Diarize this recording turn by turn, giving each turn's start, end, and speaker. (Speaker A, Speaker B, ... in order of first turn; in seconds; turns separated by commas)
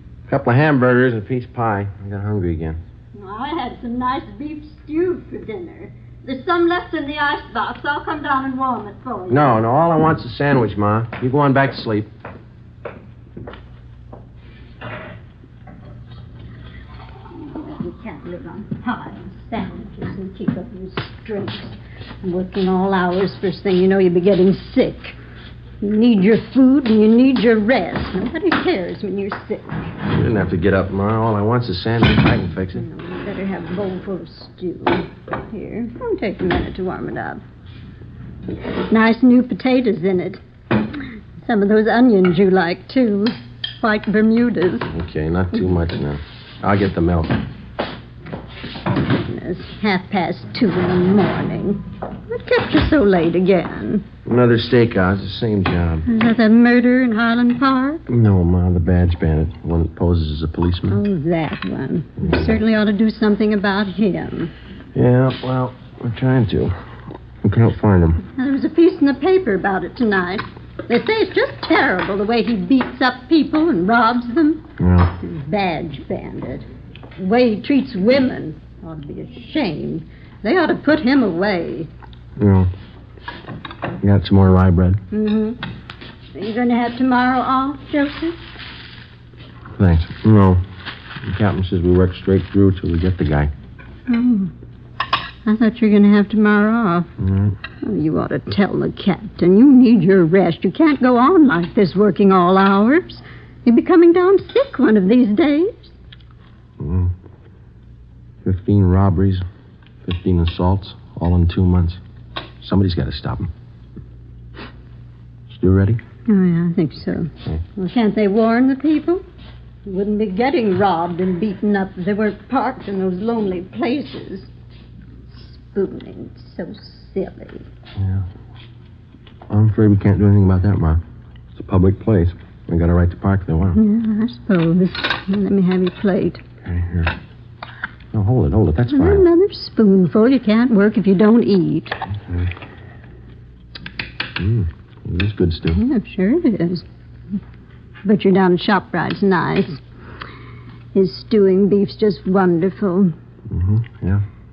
Speaker A: 0.3-2.8, Speaker B: 3.1-9.5, Speaker A: 9.3-12.1, Speaker B: 17.3-25.2, Speaker B: 25.8-29.8, Speaker A: 30.1-32.9, Speaker B: 32.7-37.4, Speaker B: 38.9-40.4, Speaker B: 41.4-44.9, Speaker A: 44.9-47.4, Speaker B: 49.0-54.1, Speaker A: 54.2-56.1, Speaker B: 56.1-58.0, Speaker A: 58.1-61.0, Speaker B: 60.9-64.5, Speaker A: 62.2-62.6, Speaker A: 64.9-66.8, Speaker A: 67.4-68.2, Speaker B: 68.3-74.6, Speaker A: 74.8-75.1, Speaker B: 75.2-81.9, Speaker A: 82.4-82.7, Speaker A: 84.0-85.0, Speaker B: 85.1-85.6, Speaker B: 86.3-88.4, Speaker A: 89.8-90.7, Speaker A: 91.2-93.5, Speaker B: 94.1-94.5, Speaker B: 95.5-97.1, Speaker A: 97.2-97.6, Speaker B: 97.8-105.9, Speaker A: 106.8-107.1, Speaker A: 108.5-109.4, Speaker A: 110.0-112.0, Speaker A: 112.6-113.5, Speaker A: 115.5-116.0, Speaker B: 116.3-119.2, Speaker B: 119.9-124.5, Speaker B: 125.3-127.7, Speaker A: 128.0-128.3, Speaker A: 129.5-131.0, Speaker A: 131.6-133.8, Speaker B: 133.7-136.4, Speaker A: 136.6-137.1, Speaker A: 138.1-139.3, Speaker B: 138.9-142.0, Speaker A: 144.4-145.8, Speaker B: 145.8-146.8, Speaker B: 148.0-149.8, Speaker B: 150.9-153.1, Speaker A: 153.5-154.2